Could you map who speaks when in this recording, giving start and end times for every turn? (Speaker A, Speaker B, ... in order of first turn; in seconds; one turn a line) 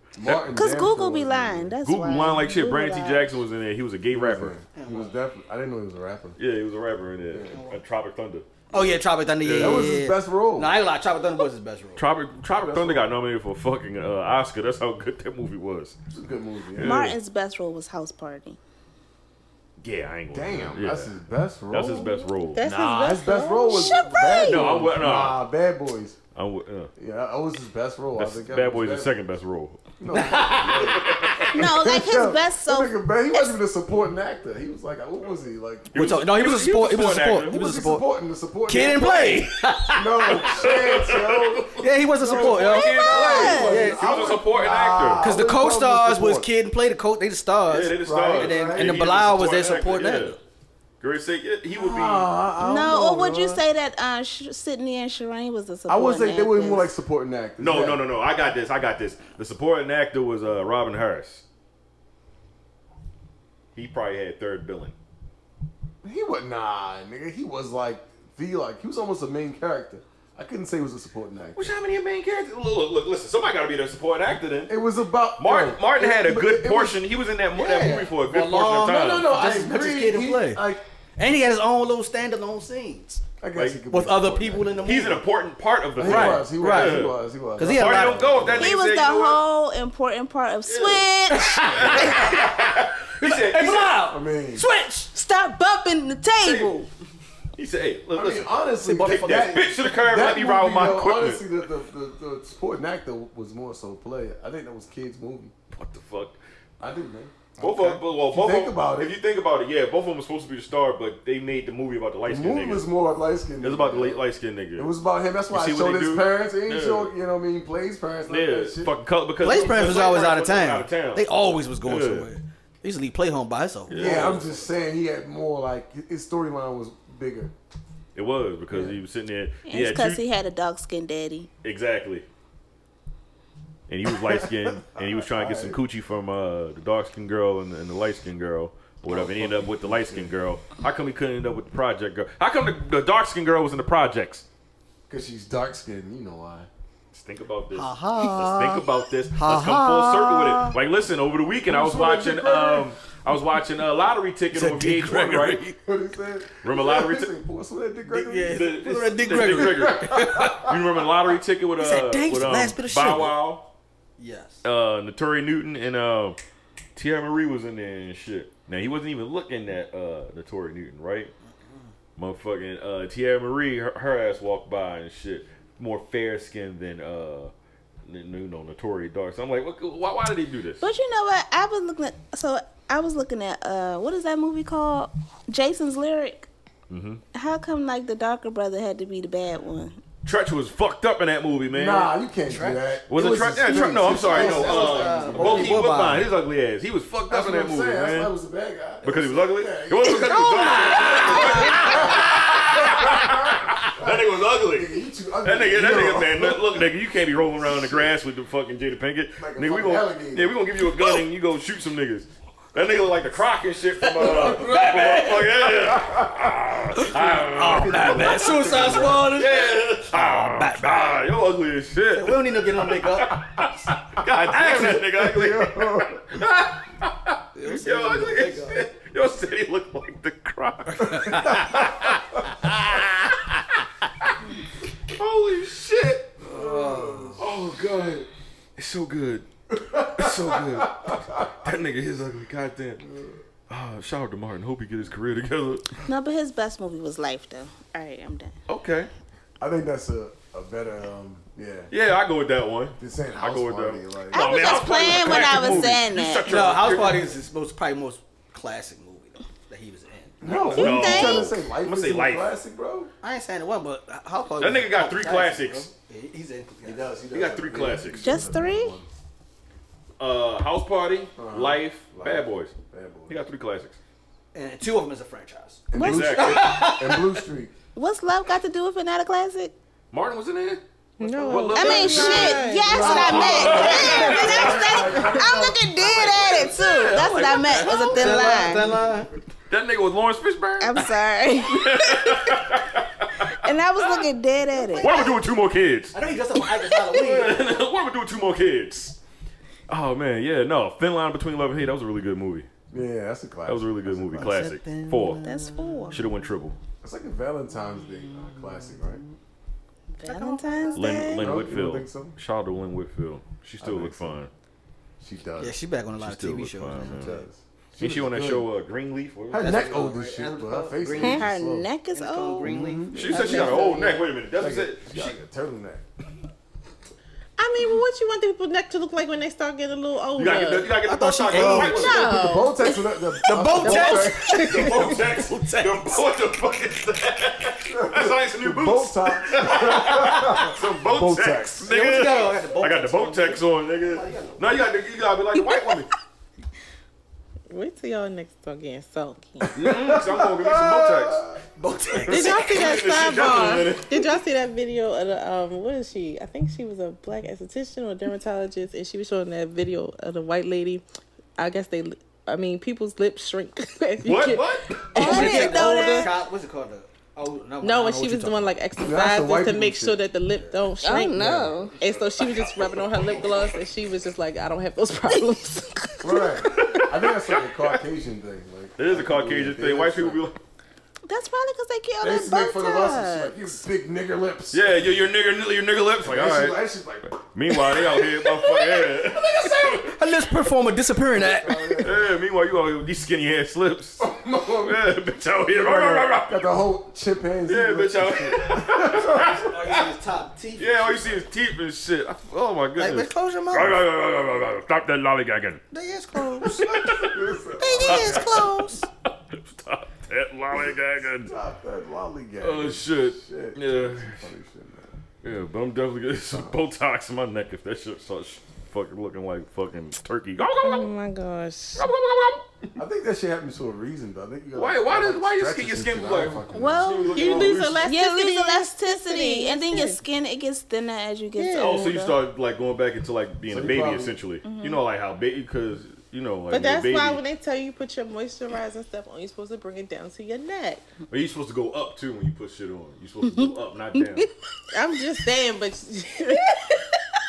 Speaker A: 0.1-1.8
Speaker B: 0.2-0.5
Speaker C: 0.5-3.4
Speaker B: 1.8-4.6
Speaker A: 4.1-6.4
Speaker D: 4.7-5.1
Speaker B: 6.4-8.5
Speaker A: 7.3-7.6
Speaker D: 7.5-7.8
Speaker D: 8.7-12.0
Speaker B: 9.4-10.0
Speaker A: 9.5-10.8
Speaker B: 12.0-16.0
Speaker A: 12.5-13.2
Speaker A: 16.1-17.1
Speaker B: 16.8-17.1
Speaker C: 16.8-18.6
Speaker B: 19.8-21.1
Speaker A: 20.3-26.2
Speaker B: 21.7-22.6
Speaker E: 22.4-24.0
Speaker C: 23.7-24.7
Speaker B: 24.4-25.5
Speaker B: 26.3-26.9
Speaker A: 26.9-29.1
Speaker B: 28.2-31.7
Speaker A: 30.0-35.9
Speaker D: 30.1-31.4
Speaker C: 31.5-33.5
Speaker B: 35.9-37.6
Speaker D: 35.9-38.0
Speaker A: 37.5-39.3
Speaker D: 38.7-40.7
Speaker B: 38.7-39.4
Speaker A: 39.9-46.5
Speaker B: 40.2-45.3
Speaker D: 41.8-44.3
Speaker C: 42.5-44.0
Speaker D: 45.2-50.4
Speaker B: 47.7-50.4
Speaker A: 48.0-49.0
Speaker B: 51.0-52.3
Speaker A: 51.7-53.6
Speaker C: 52.6-56.9
Speaker A: 55.9-58.0
Speaker B: 57.6-61.4
Speaker B: 63.7-64.9
Speaker A: 66.0-71.7
Speaker B: 71.5-74.8
Speaker A: 74.7-77.0
Speaker B: 75.4-79.4
Speaker D: 77.5-80.6
Speaker A: 78.9-80.8
Speaker D: 81.2-83.2
Speaker A: 83.4-85.2
Speaker B: 83.5-83.8
Speaker D: 83.9-85.2
Speaker B: 84.8-89.4
Speaker A: 86.0-88.8
Speaker D: 86.0-88.6
Speaker C: 88.5-92.5
Speaker B: 90.7-93.9
Speaker D: 91.3-95.1
Speaker A: 94.0-94.6
Speaker C: 95.1-96.9
Speaker B: 96.4-96.8
Speaker B: 97.5-101.4
Speaker A: 98.1-105.5
Speaker B: 105.7-106.4
Speaker A: 106.8-109.1
Speaker B: 107.6-112.8
Speaker A: 112.3-114.2
Speaker B: 113.6-114.9
Speaker A: 114.8-120.0
Speaker B: 115.5-117.1
Speaker B: 118.3-121.2
Speaker D: 119.4-124.5
Speaker B: 121.8-122.3
Speaker B: 123.9-124.5
Speaker A: 123.9-127.5
Speaker B: 128.1-130.2
Speaker A: 128.7-129.0
Speaker C: 129.7-131.5
Speaker B: 131.6-132.2
Speaker B: 133.9-144.4
Speaker A: 134.3-135.8
Speaker A: 139.1-140.3
Speaker A: 145.1-146.7
Speaker B: 147.1-155.8
Speaker D: 147.7-150.8
Speaker A: 151.7-152.9
Speaker D: 154.5-155.7
Speaker A: 155.8-158.7
Speaker B: 156.6-157.3
Speaker D: 158.1-160.6
Speaker B: 158.5-163.7
Speaker A: 159.3-160.7
Speaker D: 161.8-163.4
Speaker D: 164.2-164.6
Speaker B: 164.6-166.4
Speaker B: 166.9-171.3
Speaker D: 171.4-171.9
Speaker B: 172.2-177.5
Speaker B: 178.1-180.8
Speaker C: 180.8-186.5
Speaker B: 186.9-187.2
Speaker C: 187.3-190.0
Speaker B: 190.2-192.1
Speaker A: 191.7-195.9
Speaker D: 192.5-193.0
Speaker B: 193.1-198.3
Speaker D: 193.6-196.3
Speaker A: 197.3-206.8
Speaker B: 199.0-233.6
Speaker D: 200.0-202.6
Speaker A: 207.6-208.1
Speaker A: 209.4-210.6
Speaker D: 214.0-215.7
Speaker A: 214.2-214.9
Speaker A: 215.7-216.5
Speaker D: 216.9-221.3
Speaker A: 217.3-219.4
Speaker D: 222.1-223.7
Speaker A: 224.5-226.4
Speaker D: 224.5-225.0
Speaker D: 227.5-228.8
Speaker D: 230.9-231.6
Speaker A: 231.2-231.8
Speaker B: 235.1-236.3
Speaker A: 236.4-237.4
Speaker D: 236.4-237.4
Speaker B: 237.4-243.0
Speaker A: 239.7-241.5
Speaker A: 243.0-243.4
Speaker B: 243.7-246.1
Speaker C: 246.1-248.5
Speaker B: 248.7-249.1
Speaker A: 249.6-251.9
Speaker B: 251.9-257.3
Speaker A: 253.0-256.0
Speaker C: 254.3-256.5
Speaker D: 256.4-260.4
Speaker A: 260.4-263.1
Speaker B: 260.4-262.6
Speaker C: 260.7-261.5
Speaker D: 263.2-267.1
Speaker B: 264.6-265.9
Speaker A: 266.8-269.1
Speaker B: 267.3-268.4
Speaker C: 268.2-268.9
Speaker B: 270.2-272.7
Speaker A: 271.4-273.4
Speaker B: 273.3-273.9
Speaker D: 274.5-277.4
Speaker A: 275.9-277.7
Speaker C: 275.9-276.6
Speaker B: 276.0-276.6
Speaker C: 277.9-279.7
Speaker B: 280.1-285.4
Speaker E: 281.2-283.4
Speaker C: 281.7-288.9
Speaker A: 282.9-285.8
Speaker D: 282.9-284.6
Speaker B: 286.0-288.9
Speaker D: 286.8-289.3
Speaker B: 289.7-291.1
Speaker C: 290.8-292.6
Speaker B: 291.6-294.3
Speaker C: 293.5-295.4
Speaker B: 294.9-296.1
Speaker D: 296.1-297.8
Speaker B: 296.9-299.1
Speaker B: 299.9-302.7
Speaker A: 302.9-304.7
Speaker B: 303.6-305.5
Speaker D: 304.4-306.5
Speaker C: 305.4-306.2
Speaker B: 306.1-306.8
Speaker A: 307.0-309.2
Speaker D: 307.9-309.3
Speaker C: 310.2-311.5
Speaker D: 310.2-311.3
Speaker B: 310.9-314.5
Speaker A: 311.3-312.4
Speaker A: 313.8-314.4
Speaker A: 315.2-315.8
Speaker D: 315.6-317.5
Speaker B: 316.2-317.3
Speaker A: 316.9-318.7
Speaker B: 318.0-320.1
Speaker A: 319.5-321.9
Speaker D: 319.5-321.5
Speaker C: 321.2-322.7
Speaker D: 322.1-323.3
Speaker A: 322.6-323.7
Speaker B: 323.1-325.4
Speaker E: 323.3-324.1
Speaker C: 323.3-324.2
Speaker A: 324.5-326.0
Speaker E: 327.6-330.9
Speaker B: 330.3-332.3
Speaker D: 331.0-332.3
Speaker A: 331.4-334.6
Speaker E: 331.8-332.9
Speaker D: 333.4-336.2
Speaker E: 333.8-335.2
Speaker B: 334.5-346.1
Speaker A: 337.9-341.9
Speaker D: 341.8-344.8
Speaker E: 347.7-349.7
Speaker A: 349.6-351.6
Speaker B: 349.7-351.4
Speaker D: 351.8-353.0
Speaker E: 352.3-361.0
Speaker B: 352.3-354.3
Speaker E: 361.6-366.3
Speaker B: 364.2-365.6
Speaker C: 365.1-366.3
Speaker D: 365.1-368.8
Speaker E: 367.8-371.4
Speaker A: 369.0-370.2
Speaker D: 370.5-370.9
Speaker C: 371.0-371.9
Speaker A: 371.3-373.0
Speaker E: 372.0-376.0
Speaker A: 376.2-380.4
Speaker B: 376.6-378.0
Speaker B: 379.0-380.6
Speaker C: 381.3-383.8
Speaker A: 382.2-385.2
Speaker B: 384.7-390.2
Speaker A: 386.2-388.3
Speaker A: 389.2-390.1
Speaker D: 390.1-392.0
Speaker A: 391.3-392.3
Speaker B: 392.0-394.3
Speaker A: 394.2-399.6
Speaker B: 394.8-396.7
Speaker B: 397.7-400.1
Speaker D: 399.3-401.5
Speaker B: 400.8-405.8
Speaker D: 402.9-404.0
Speaker D: 405.9-407.2
Speaker B: 406.6-411.5
Speaker A: 407.0-408.6
Speaker C: 407.8-409.1
Speaker A: 410.8-415.2
Speaker B: 412.6-414.5
Speaker B: 415.4-421.1
Speaker A: 416.4-416.8
Speaker E: 420.8-422.0
Speaker B: 422.0-422.9
Speaker A: 422.9-427.4
Speaker B: 424.7-428.1
Speaker C: 426.7-432.4
Speaker E: 427.3-430.2
Speaker E: 431.6-432.0
Speaker B: 431.8-437.4
Speaker A: 433.6-434.4
Speaker C: 434.6-435.0
Speaker E: 436.7-441.0
Speaker B: 441.3-444.5
Speaker C: 443.4-443.7
Speaker E: 444.9-447.0